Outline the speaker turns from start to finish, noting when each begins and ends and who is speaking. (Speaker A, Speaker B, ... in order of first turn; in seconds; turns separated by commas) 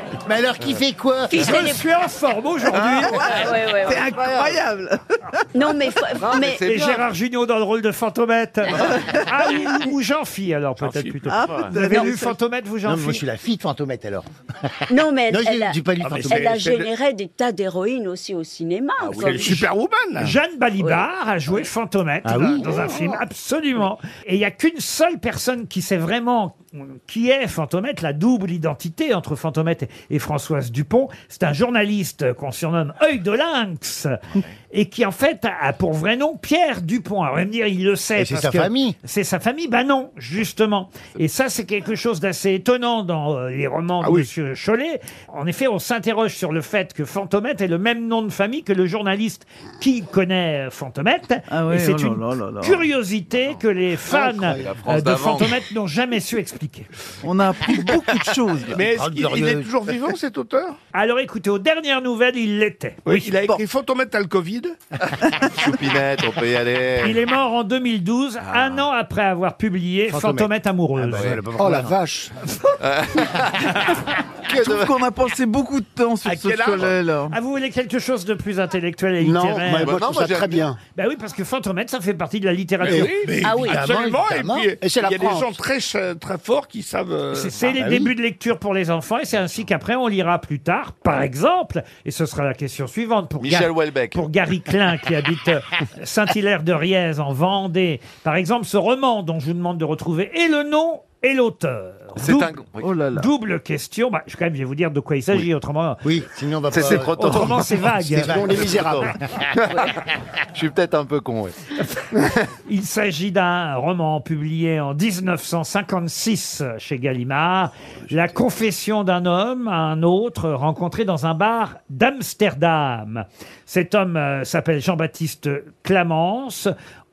Speaker A: 0.2-1.7, Speaker B: 1.3-1.8, Speaker C: 1.4-3.2, Speaker D: 2.7-3.3, Speaker E: 3.1-5.8, Speaker B: 3.2-4.1, Speaker D: 4.1-4.6, Speaker B: 5.5-6.7, Speaker D: 6.2-7.0, Speaker C: 6.7-13.2, Speaker E: 8.7-9.8, Speaker E: 11.2-12.4, Speaker A: 12.8-16.6, Speaker B: 14.9-19.7, Speaker F: 16.0-16.9, Speaker D: 19.0-19.5, Speaker F: 19.2-20.3, Speaker C: 20.2-34.2, Speaker A: 22.2-23.2, Speaker C: 34.7-56.9, Speaker A: 38.2-39.0, Speaker E: 51.5-52.9, Speaker D: 54.6-55.6, Speaker E: 57.2-58.8, Speaker F: 58.7-60.8, Speaker A: 58.8-59.7, Speaker C: 60.9-63.3, Speaker F: 63.0-64.7, Speaker D: 65.5-67.2, Speaker C: 67.0-71.4, Speaker D: 68.4-68.8, Speaker A: 70.1-72.0, Speaker G: 71.5-72.3, Speaker D: 72.8-74.0, Speaker E: 74.5-77.3, Speaker D: 74.5-74.9, Speaker F: 76.2-77.0, Speaker C: 77.3-79.9, Speaker G: 79.2-80.8, Speaker D: 79.8-80.6, Speaker C: 80.9-83.2, Speaker F: 82.8-87.6, Speaker A: 83.2-84.7, Speaker B: 83.4-83.8, Speaker G: 84.8-85.6, Speaker C: 87.3-102.6, Speaker A: 87.8-88.1, Speaker D: 93.4-94.2, Speaker D: 102.2-102.9, Speaker E: 102.8-103.3, Speaker C: 103.1-106.0, Speaker A: 106.0-109.4, Speaker D: 106.7-107.8, Speaker C: 107.2-108.4, Speaker G: 108.2-109.1, Speaker D: 108.5-109.9, Speaker D: 110.5-111.5, Speaker C: 112.7-126.7